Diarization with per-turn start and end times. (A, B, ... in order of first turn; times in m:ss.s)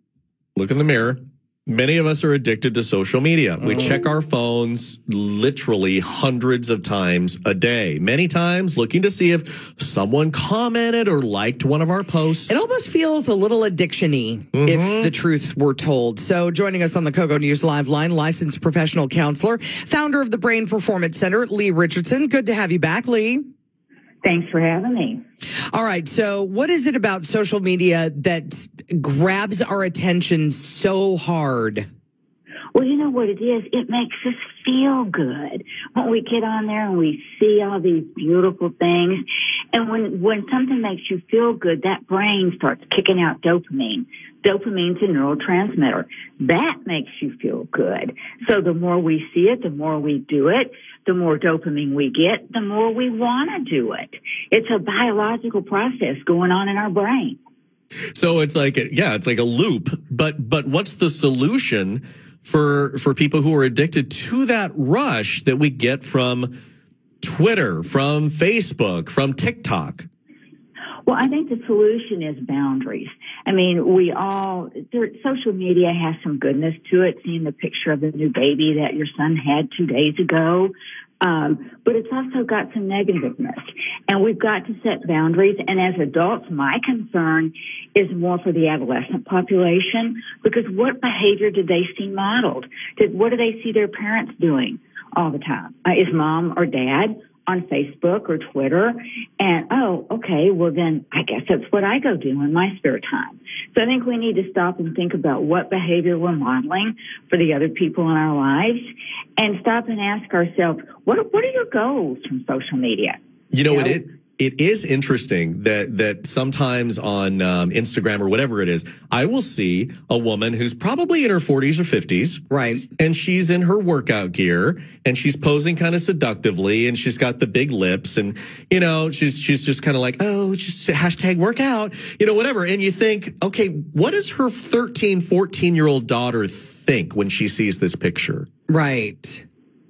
0:00.6-0:12.6 A
0:03.6-0:03.9 B
0:12.5-0:23.4 B
0:14.5-0:15.1 A
0:24.2-0:25.2 C
0:25.7-0:31.8 B
0:32.7-0:57.4 C
0:58.1-1:06.5 A
1:07.2-1:10.1 A
1:11.0-1:53.2 C
1:53.5-2:02.4 A
1:53.7-1:54.0 C
2:02.5-2:02.9 B
2:03.0-2:18.5 A
2:18.7-2:19.4 B